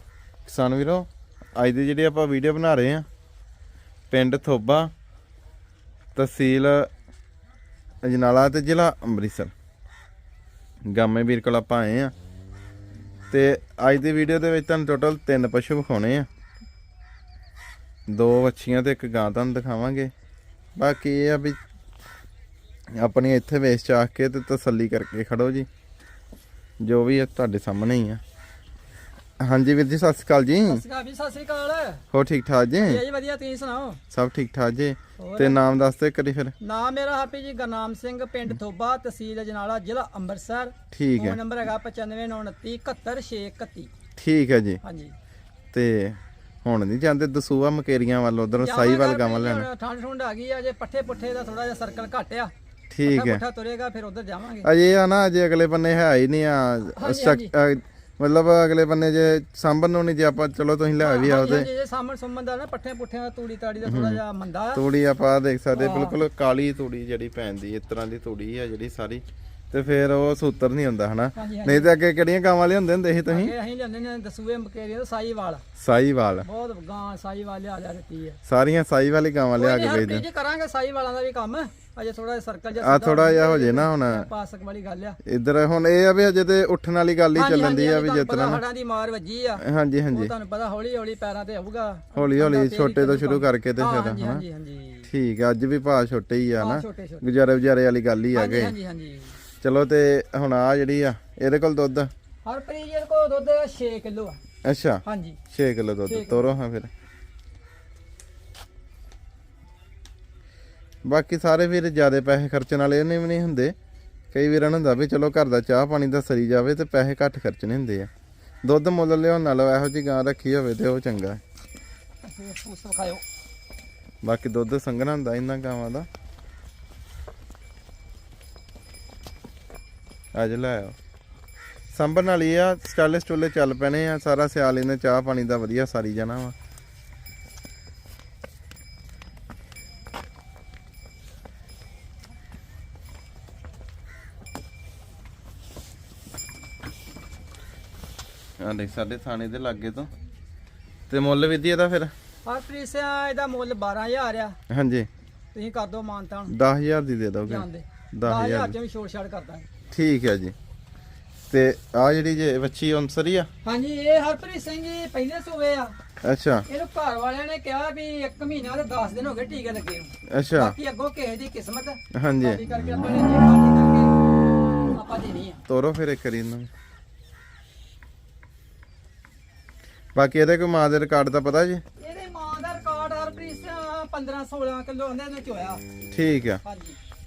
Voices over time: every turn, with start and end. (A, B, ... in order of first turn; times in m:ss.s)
0:00.4-0:03.0 A
0:04.1-0:04.9 A
0:06.2-0:06.9 A
0:08.0-0:09.5 A
0:10.9-0:12.1 A
0:13.3-0:16.3 A
0:18.1-0:20.1 A
0:20.8-0:21.6 A
0:22.9-0:25.7 A
0:26.8-0:28.2 A
0:29.4-0:30.8 A
0:30.7-0:32.0 B
0:32.1-0:33.0 A
0:32.8-0:34.0 B
0:34.1-0:36.5 A
0:35.2-0:35.6 B
0:36.6-0:43.9 B
0:40.9-0:41.4 A
0:44.2-0:44.8 A
0:44.8-0:45.1 B
0:45.7-0:49.7 A
0:48.6-0:52.5 B
0:52.9-0:53.4 A
0:53.0-0:54.7 B
0:54.6-1:01.7 A
0:56.9-0:57.5 B
1:01.0-1:04.8 B
1:03.8-1:04.2 A
1:04.7-1:13.5 A
1:05.7-1:06.2 B
1:11.3-1:11.9 B
1:13.3-1:15.6 B
1:15.8-1:16.5 A
1:16.4-1:18.4 B
1:18.4-1:20.2 A
1:19.6-1:25.2 B
1:22.8-1:24.3 A
1:25.2-1:28.6 A
1:27.3-1:35.1 B
1:29.6-1:30.3 A
1:32.1-1:34.4 A
1:35.1-1:38.7 A
1:36.6-1:37.2 B
1:38.3-1:39.4 B
1:39.6-1:42.1 A
1:42.4-1:44.4 B
1:44.6-1:46.9 A
1:45.0-1:45.4 B
1:46.1-1:46.5 B
1:51.0-1:53.7 A
1:54.3-1:58.1 A
1:58.6-2:01.4 A
2:02.2-2:03.2 B
2:04.2-2:06.1 A
2:10.3-2:11.0 A
2:11.9-2:16.5 A
2:28.6-2:30.1 A
2:31.1-2:32.1 A
2:32.4-2:34.6 B
2:34.7-2:35.1 A
2:35.5-2:36.5 B
2:36.5-2:38.7 A
2:37.5-2:39.7 B
2:39.9-2:40.5 A
2:41.5-2:43.5 A
2:43.6-2:45.9 B
2:46.2-2:46.6 A
2:46.7-2:54.2 B
2:50.3-2:50.7 A
2:52.1-2:52.6 A
2:54.7-2:55.6 B
2:55.7-2:56.7 A
3:00.1-3:01.8 A
3:02.0-3:05.8 B
3:06.1-3:06.6 A
3:06.6-3:07.0 B